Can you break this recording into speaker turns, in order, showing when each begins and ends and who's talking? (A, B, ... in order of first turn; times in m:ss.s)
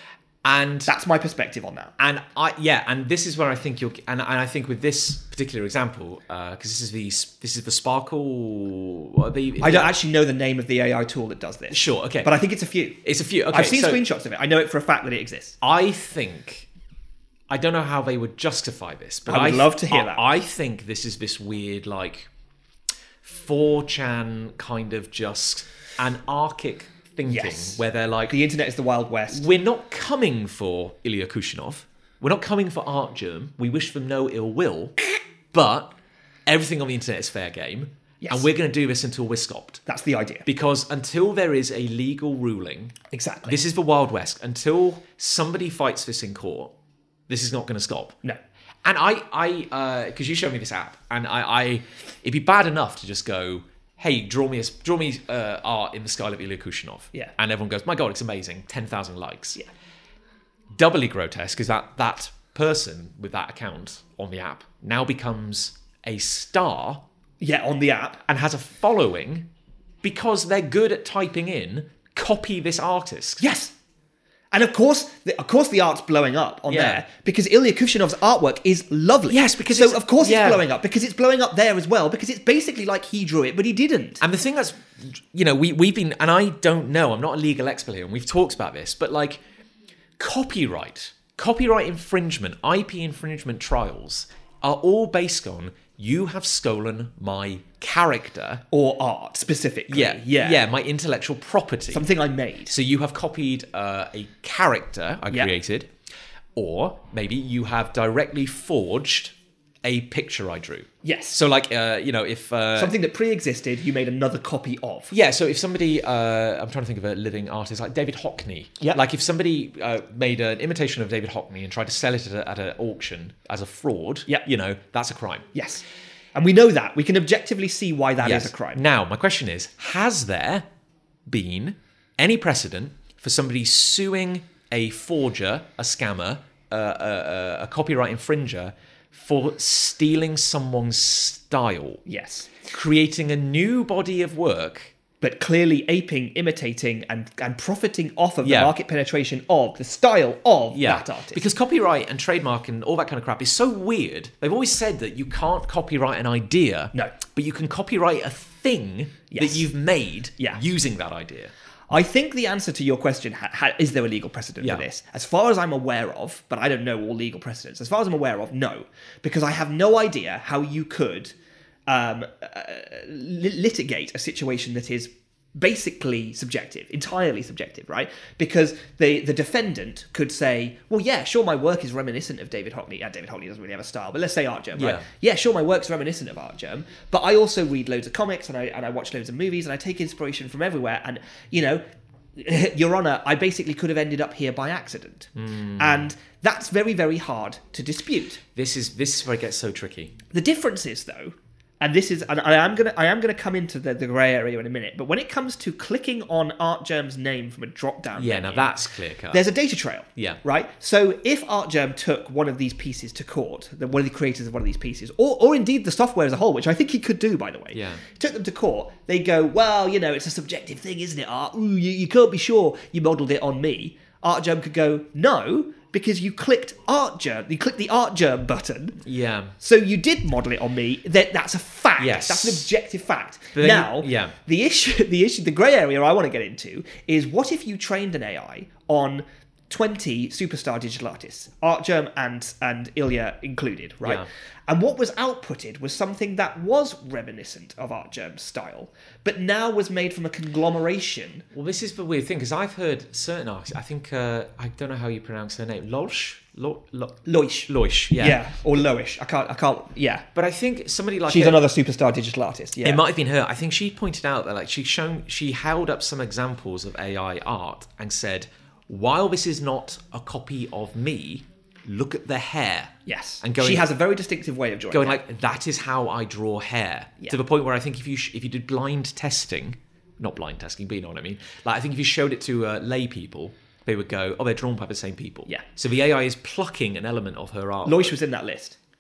0:00.4-0:00.9 A
0:00.9-0:01.9 B
0:02.0-0:09.9 A
0:09.6-0:13.0 B
0:11.7-0:12.3 A
0:13.0-0:14.0 A
0:13.5-0:15.6 B
0:15.6-0:16.7 A
0:17.5-0:22.3 A
0:19.3-0:20.2 B
0:23.2-0:28.4 A
0:27.3-0:29.5 B
0:29.3-0:35.0 A
0:35.5-0:35.9 A
0:36.5-0:39.8 A
0:38.2-0:38.5 B
0:39.9-0:40.5 B
0:40.5-0:46.7 A
0:43.1-0:43.6 B
0:47.3-0:48.2 A
0:48.8-0:59.6 A
1:00.8-1:07.0 A
1:07.4-1:08.2 B
1:08.3-1:09.5 A
1:10.0-1:13.4 A
1:13.4-1:13.7 B
1:14.5-1:24.2 B
1:16.7-1:17.0 A
1:19.3-1:20.6 A
1:24.2-1:29.4 A
1:30.2-1:38.6 A
1:38.7-1:40.6 B
1:39.9-1:42.1 A
1:41.9-1:42.8 B
1:42.7-1:45.9 A
1:46.6-1:52.9 A
1:51.0-1:51.4 B
1:52.8-1:55.2 B
1:55.1-2:05.5 A
2:05.5-2:05.8 B
2:06.4-2:08.8 B
2:08.2-2:10.6 A
2:11.3-2:22.0 A
2:22.1-2:22.7 B
2:22.7-2:24.9 A
2:25.2-2:31.4 B
2:28.4-2:28.7 A
2:30.7-2:41.5 A
2:39.3-2:39.7 B
2:41.9-2:51.4 B
2:51.9-3:11.8 B
3:04.8-3:05.1 A
3:12.4-3:18.4 B
3:15.4-3:16.1 A
3:18.6-3:20.2 A
3:20.3-3:28.7 B
3:28.2-3:29.4 A
3:29.3-3:49.0 B
3:37.7-3:38.0 A
3:49.0-3:49.6 A
3:49.6-4:11.5 B
3:52.0-3:52.7 A
3:53.5-3:54.4 A
4:11.5-4:18.4 A
4:17.3-4:20.3 B
4:20.4-4:21.6 A
4:21.3-4:23.0 B
4:22.8-4:33.9 A
4:33.1-4:35.2 B
4:34.9-4:48.2 A
4:47.8-4:48.8 B